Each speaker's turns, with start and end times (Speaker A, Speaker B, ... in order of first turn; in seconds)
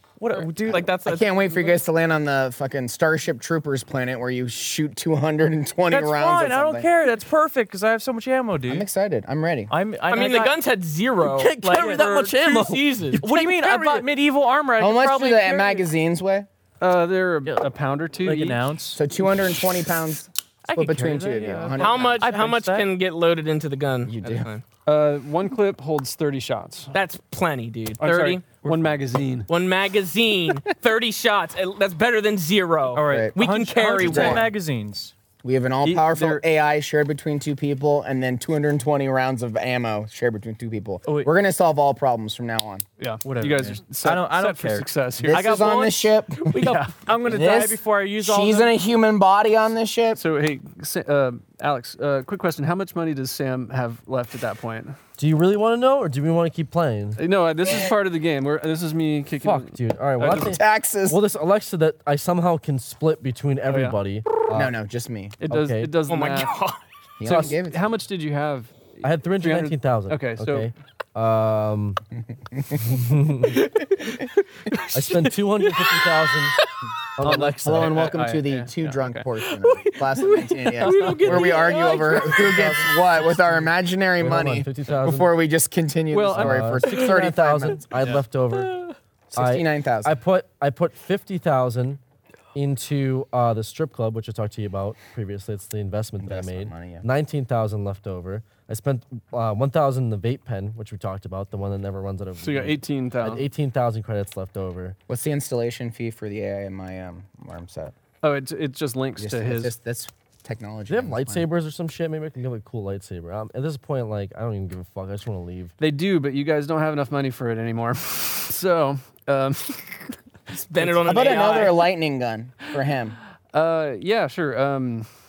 Speaker A: 0.2-0.9, 5.9-8.9, 9.7-10.5, 11.7-12.1, 13.2-15.9, 18.2-19.0, 20.7-22.9, 28.6-29.0, 32.9-35.1, 41.0-41.3, 43.2-46.0, 46.6-48.7
Speaker B: 0.3-1.8, 10.1-13.2, 21.8-24.6, 26.9-28.4, 29.5-34.5, 45.3-47.0, 66.1-66.8, 73.5-76.7, 79.4-83.0, 88.5-88.9, 120.5-121.9
Speaker C: 0.7-6.9, 8.7-9.7, 14.8-16.5, 18.9-22.2, 24.1-24.5, 33.0-33.4, 34.0-34.5, 35.4-42.8, 45.3-50.2, 60.4-61.2, 64.5-65.3, 67.2-67.8, 72.5-73.1, 77.2-88.0, 89.3-90.2, 96.2-97.0, 105.1-107.9, 109.2-111.5, 121.0-123.2
Speaker D: 11.2-14.1, 55.2-57.2, 59.4-64.7, 65.5-65.9, 67.3-67.5, 69.0-72.0, 72.8-73.6, 74.9-76.5, 77.2-78.1, 81.2-81.6, 84.2-85.3, 86.3-88.7, 89.3-92.0, 92.5-105.0, 110.9-115.7
Speaker E: 16.8-18.6, 24.9-26.9, 28.0-29.5, 35.8-36.4, 43.0-45.4, 50.1-55.0, 57.2-60.6, 63.7-64.0, 65.4-66.5, 67.2-70.7, 77.2-79.2, 86.1-86.8, 102.4-103.5, 108.2-109.7, 115.8-120.1, 120.8-121.3, 123.5-125.1